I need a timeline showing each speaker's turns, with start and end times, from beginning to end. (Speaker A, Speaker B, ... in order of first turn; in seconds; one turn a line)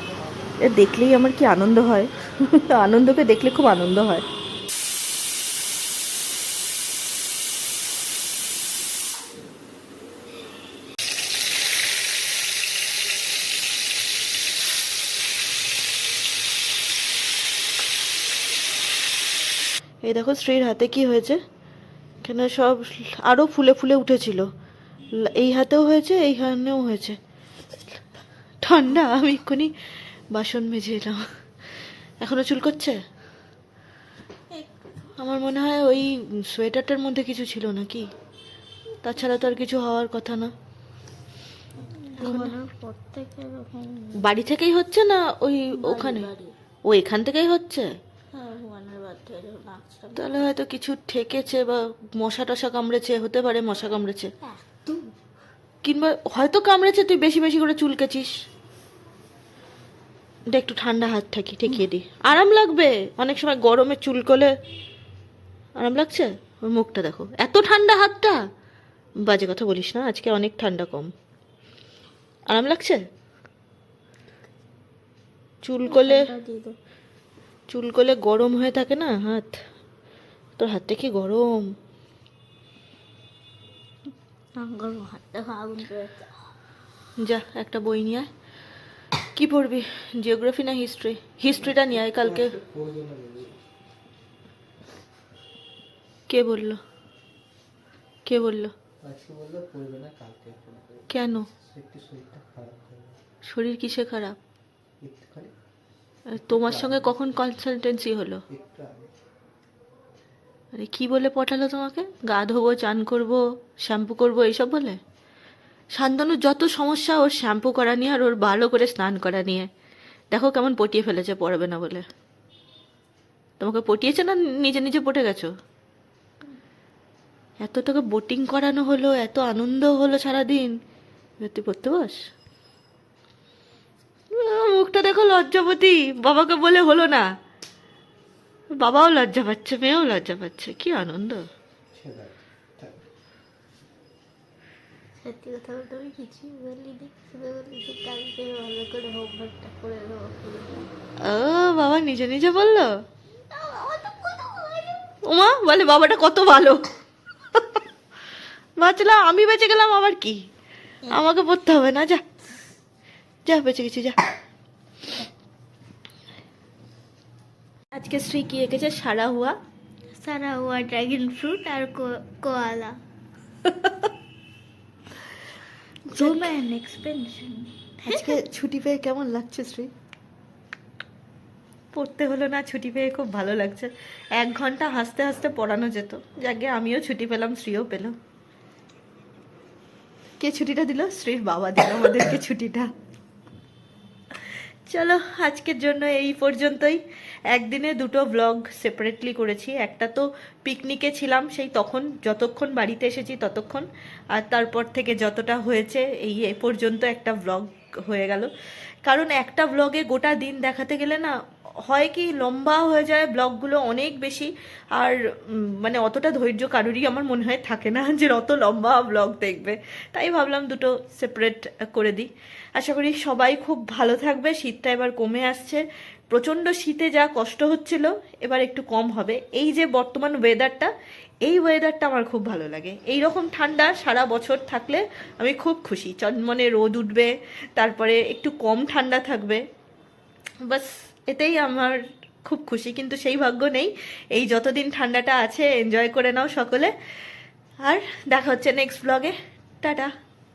Speaker A: 0.6-4.2
Speaker A: 20.0-21.4
Speaker A: 22.2-24.5
Speaker A: 25.1-27.2
Speaker A: 28.6-29.7
Speaker A: 30.3-31.2
Speaker A: 32.2-33.0
Speaker A: 35.2-38.1
Speaker A: 39.0-40.5
Speaker B: 42.1-44.2
Speaker A: 42.2-42.5
Speaker A: 44.2-46.3
Speaker B: 45.8-46.5
Speaker A: 46.9-47.9
Speaker B: 48.3-50.4
Speaker A: 50.1-54.3
Speaker B: 54.4-55.1
Speaker A: 55.8-58.3
Speaker A: 60.5-64.5
Speaker A: 65.8-68.4
Speaker A: 69.2-71.1
Speaker A: 72.5-73.0
Speaker A: 75.6-76.3
Speaker B: 75.8-76.8
Speaker A: 77.7-79.6
Speaker A: 80.6-81.7
Speaker B: 84.6-86.3
Speaker A: 87.2-88.3
Speaker A: 89.3-92.6
Speaker C: 91.7-93.6
Speaker A: 96.3-96.8
Speaker A: 98.2-98.7
Speaker C: 99.0-101.1
Speaker A: 101.1-101.5
Speaker C: 101.6-103.2
Speaker A: 103.5-104.4
Speaker C: 105.0-105.5
Speaker A: 106.3-108.4
Speaker C: 106.4-107.0
Speaker C: 108.5-109.1
Speaker A: 110.7-115.0
Speaker A: 115.9-119.7
Speaker A: 120.3-122.0
Speaker A: 123.6-125.5
Speaker A: 127.6-130.8
Speaker A: 131.4-132.2
Speaker A: 134.3-137.3
Speaker A: 138.8-141.4
Speaker C: 141.9-143.0
Speaker B: 145.2-150.9
Speaker A: 151.2-152.9
Speaker B: 153.5-155.1
Speaker A: 155.2-156.8
Speaker A: 157.5-157.8
Speaker A: 158.8-160.4
Speaker A: 161.1-162.2
Speaker A: 163.4-164.2
Speaker A: 167.9-169.6
Speaker B: 170.1-173.0
Speaker A: 173.6-174.1
Speaker B: 176.1-178.4
Speaker A: 176.1-176.5
Speaker A: 178.0-179.9
Speaker A: 181.9-188.1
Speaker A: 190.4-192.9
Speaker A: 194.9-208.5
Speaker A: 209.0-211.3
Speaker A: 211.8-230.9
Speaker A: 231.4-239.6
Speaker A: 240.6-246.9
Speaker A: 247.8-250.1